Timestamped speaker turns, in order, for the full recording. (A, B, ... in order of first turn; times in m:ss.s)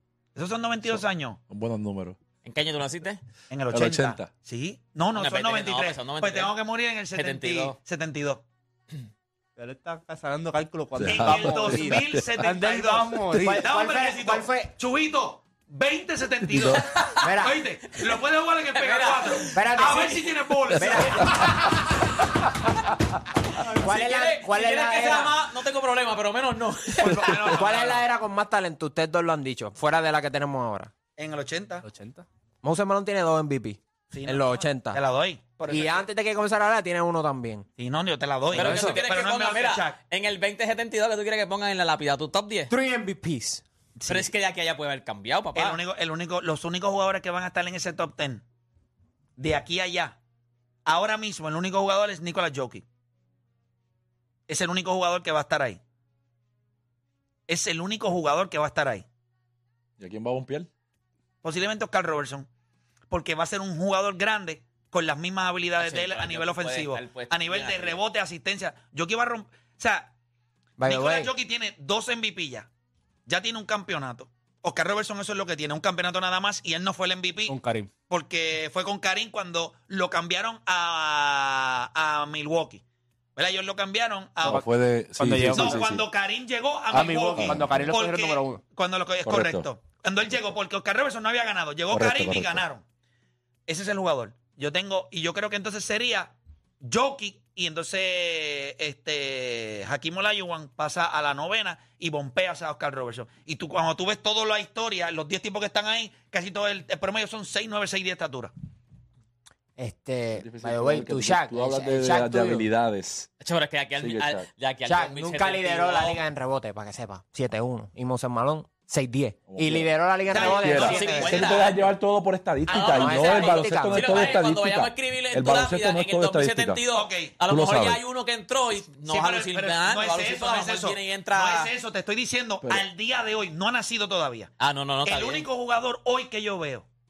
0:00.3-0:01.4 A
0:00.8-0:02.2 B
0:02.4-0:03.2 C
0:03.5-0:08.4 A
0:03.7-0:04.3 B
0:05.1-0:06.5 C
0:07.1-0:07.8 C
0:09.6-0:13.7 D
0:11.0-0:12.3 B
0:11.0-0:21.6 A
0:13.4-0:14.7 E
0:16.5-0:17.0 B
0:17.2-0:17.6 E
0:18.7-0:19.6 C
0:19.5-0:21.5 E
0:20.7-0:21.5 B
0:23.6-0:27.6 C
0:23.8-0:25.4 E
0:27.0-0:28.0 A
0:27.1-0:30.9 E
0:31.2-0:31.8 A
0:31.8-0:32.2 D
0:32.6-0:35.0 E
0:34.1-0:36.1 A
0:35.7-0:37.6 E
0:37.8-0:40.0 A
0:38.5-0:42.7 C
0:38.5-0:39.0 E
0:42.7-0:43.6 E
0:44.0-0:44.3 A
0:44.1-0:45.8 C
0:45.5-0:48.4 A
0:49.4-0:50.2 A
0:50.8-0:52.8 A
0:54.5-0:55.8 A
0:57.5-0:59.0 A
1:00.0-1:00.7 B
1:01.4-1:02.5 A
1:03.1-1:10.1 A
1:05.8-1:08.0 C
1:10.8-1:11.3 E
1:10.8-1:12.7 A
1:13.2-1:17.6 A
1:17.5-1:17.9 D
1:18.1-1:22.8 A
1:23.4-1:24.6 A
1:24.4-1:26.1 B
1:25.2-1:26.0 D
1:25.5-1:32.8 A
1:26.9-1:28.0 B
1:26.9-1:28.6 D
1:29.2-1:29.7 B
1:31.9-1:32.6 B
1:33.7-1:48.5 A
1:49.8-1:52.7 E
1:50.4-1:53.3 B
1:53.4-1:56.2 C
1:54.0-1:54.5 B
1:54.8-2:01.4 E
1:59.5-2:06.8 B
2:00.3-2:01.8 A
2:00.3-2:01.8 C
2:02.7-2:04.4 E
2:02.7-2:11.7 C
2:06.9-2:07.3 A
2:07.4-2:08.0 B
2:09.0-2:14.5 A
2:14.6-2:15.5 C
2:15.0-2:16.8 A